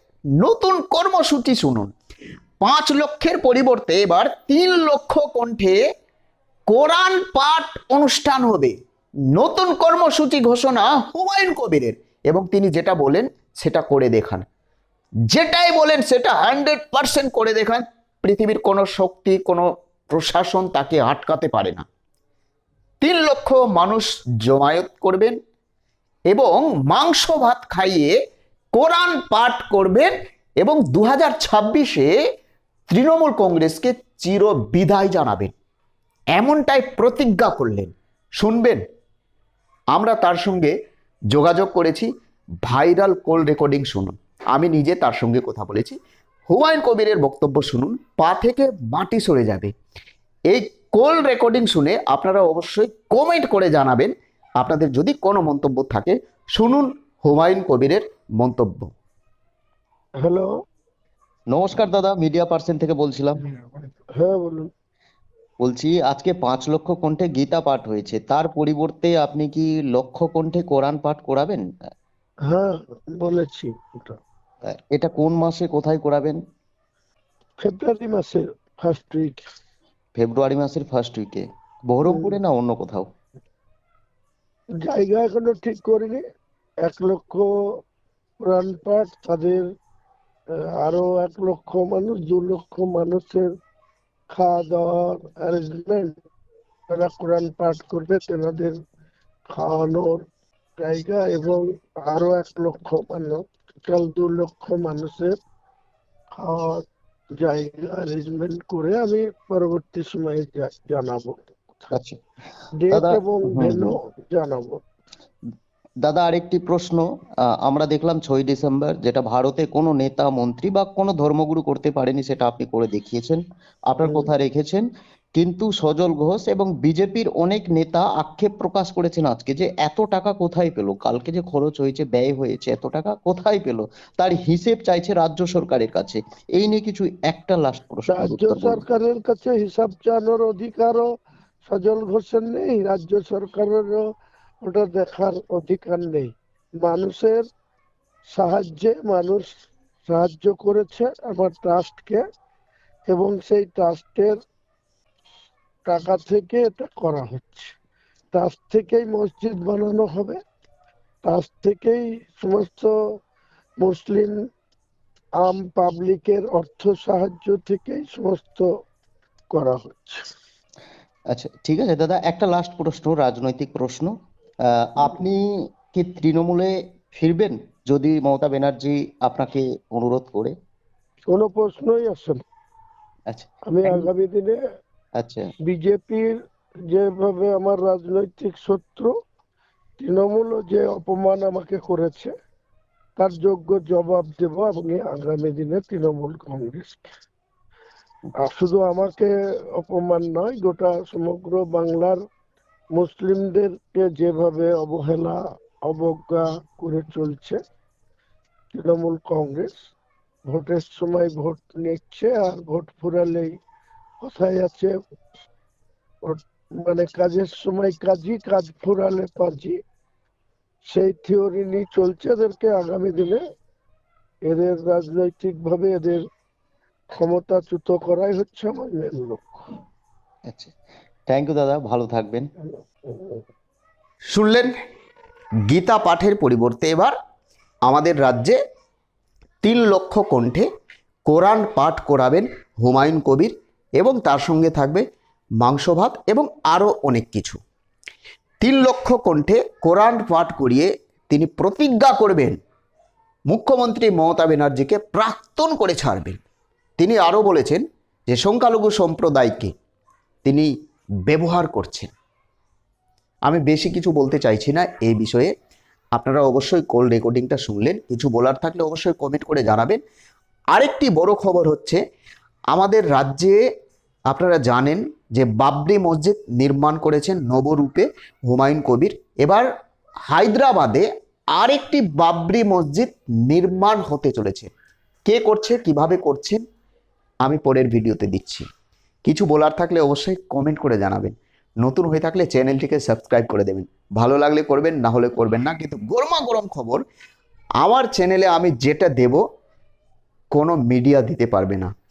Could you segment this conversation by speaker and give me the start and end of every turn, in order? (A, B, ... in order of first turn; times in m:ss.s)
0:00.4-0:01.9 A
0:02.6-0:05.8 A
0:06.7-0:08.7 A
0:09.3-0:14.4 A
0:15.3-0:21.9 A
0:23.0-0:25.4 A
0:26.3-0:28.1 A
0:28.7-0:32.1 A
0:32.9-0:35.5 A
0:36.4-0:38.8 A
0:39.9-0:40.7 A
0:41.3-0:42.1 A
0:42.6-0:46.0 A
0:46.5-0:49.7 A
0:50.5-0:58.9 A
1:00.2-1:00.5 B
1:01.5-1:03.4 C
1:04.2-1:04.7 B
1:05.6-1:11.6 C
1:12.4-1:14.2 B
1:14.7-1:16.4 C
1:17.6-1:19.4 B
1:20.2-1:23.1 C
1:22.0-1:22.4 B
1:24.8-1:26.2 B
1:26.8-1:27.4 B
1:28.4-1:29.6 B
1:30.8-1:33.4 B
1:34.3-1:36.1 B
1:36.9-1:38.7 B
1:39.5-1:40.2 B
1:40.8-1:45.3 B
1:46.4-1:46.8 B
1:47.4-1:51.9 B
1:51.9-1:52.2 C
1:52.8-1:54.8 B
1:52.9-1:54.0 C
1:56.0-1:57.0 C
1:57.6-2:18.8 C
2:04.0-2:04.3 B
2:18.1-2:21.1 B
2:21.7-2:24.0 B
2:24.6-2:27.4 B
2:28.3-2:29.5 B
2:30.1-2:32.2 B
2:33.1-2:34.4 B
2:35.9-2:37.7 B
2:38.3-2:40.4 B
2:41.2-2:42.9 B
2:43.8-2:44.3 B
2:45.4-2:48.7 B
2:49.5-2:50.2 B
2:51.3-2:54.1 C
2:54.6-3:00.5 C
3:01.3-3:02.4 B
3:03.3-3:04.1 C
3:03.7-3:04.6 B
3:05.2-3:05.5 C
3:05.7-3:06.3 B
3:06.9-3:09.1 B
3:10.0-3:12.3 B
3:13.2-3:17.1 B
3:18.4-3:22.2 B
3:22.9-3:27.6 B
3:28.7-3:29.8 B
3:30.5-3:33.5 B
3:34.2-3:35.0 B
3:36.2-3:39.8 B
3:40.9-3:43.4 B
3:44.5-3:46.2 B
3:47.2-3:49.7 B
3:51.3-3:52.5 C
3:53.1-3:53.4 B
3:54.3-3:54.7 A
3:55.7-3:57.1 A
3:57.9-3:58.6 A
3:59.6-4:00.7 A
4:01.3-4:05.0 A
4:05.6-4:07.6 A
4:08.6-4:12.6 A
4:13.5-4:16.4 A
4:17.0-4:19.7 A
4:20.4-4:20.7 A
4:21.3-4:22.1 A
4:23.4-4:25.5 A
4:26.1-4:30.0 A
4:30.7-4:32.0 A
4:32.7-4:33.6 A
4:34.3-4:39.6 A
4:40.3-4:44.7 A
4:45.2-4:46.6 A
4:47.4-4:48.6 A
4:49.2-4:57.0 A
4:57.8-4:59.4 A
5:00.5-5:01.9 A